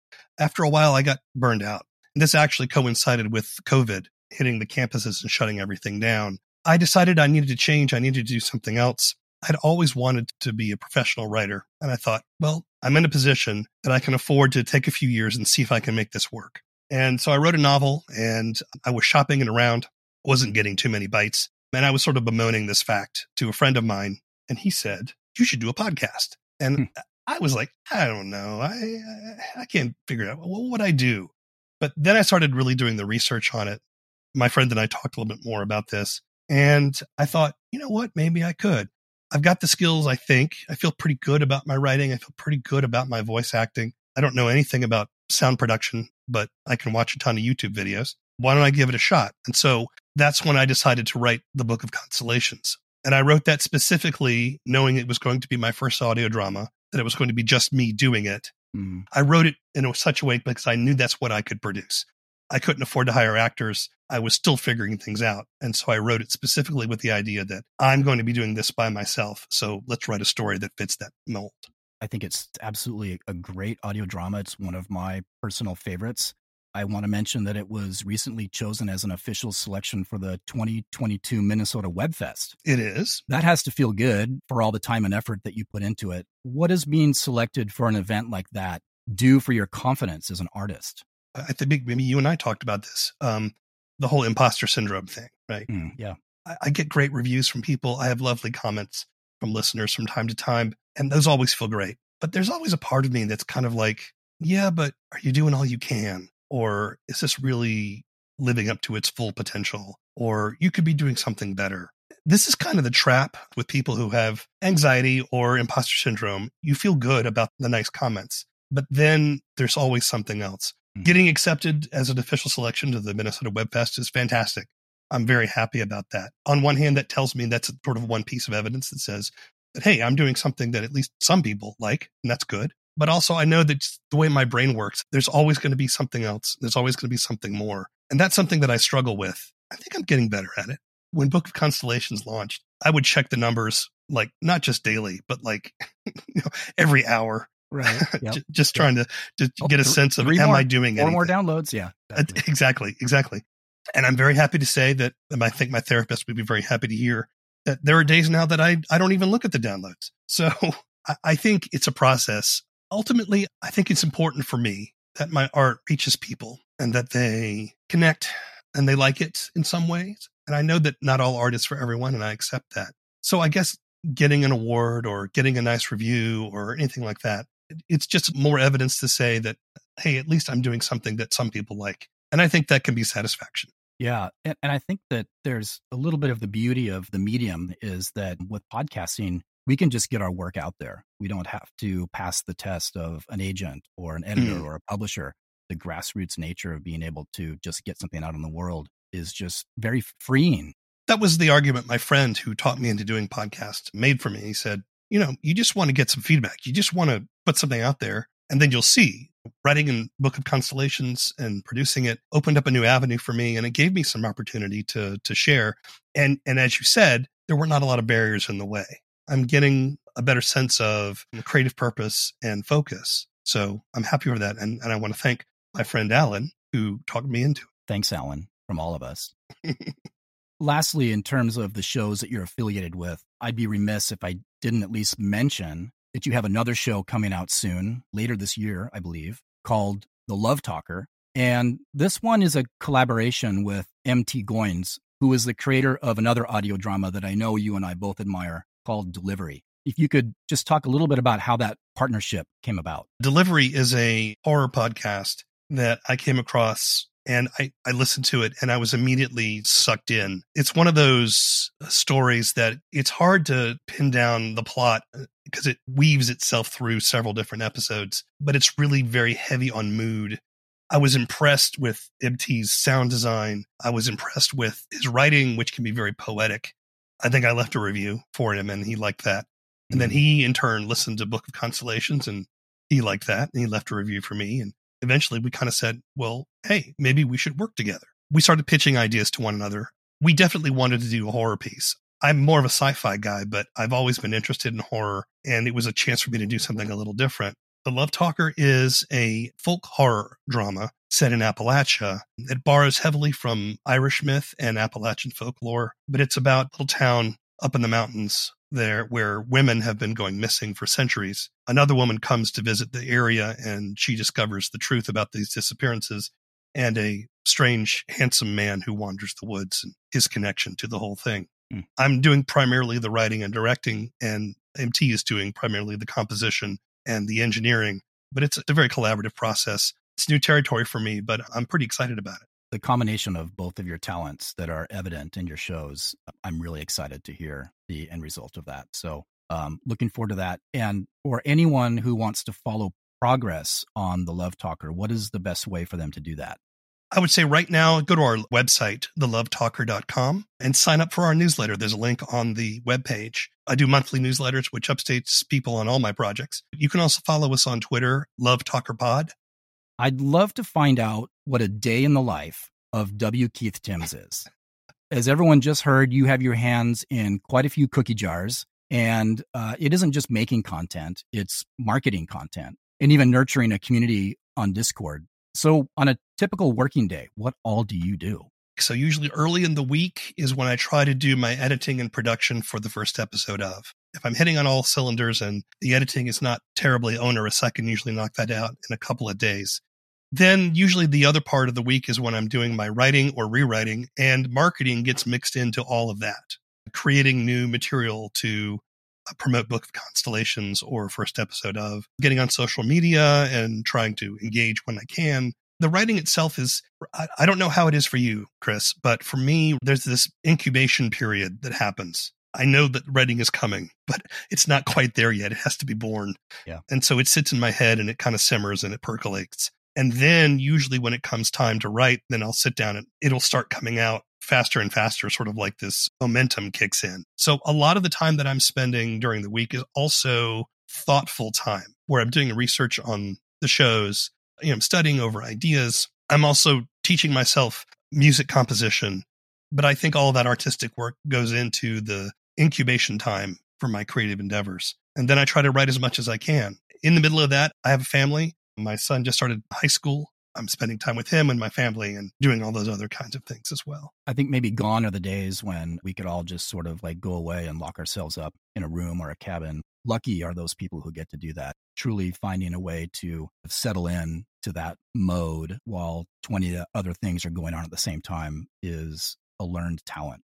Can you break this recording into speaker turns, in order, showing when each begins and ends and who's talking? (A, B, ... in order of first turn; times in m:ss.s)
0:00.4-0:33.8 A
0:34.4-0:58.5 A
0:58.7-0:59.0 B
0:59.1-1:11.7 A
1:12.0-1:22.6 B
1:22.6-1:23.2 A
1:23.3-1:31.0 B
1:31.4-1:35.7 A
1:35.7-1:36.2 B
1:36.5-2:31.3 A
2:27.7-2:28.9 B
2:29.6-2:32.4 B
2:32.2-2:33.4 A
2:34.0-3:03.7 A
3:04.0-3:20.7 B
3:14.4-3:14.7 A
3:21.1-3:47.7 A
3:47.9-3:49.3 B
3:50.6-4:13.1 B
4:13.2-5:32.5 A
4:39.9-4:40.2 B
5:32.7-5:46.6 B
5:47.1-5:59.3 A
6:00.0-6:04.5 B
6:05.1-6:18.5 B
6:18.8-6:29.8 A
6:30.3-7:34.1 A
7:34.3-7:50.4 B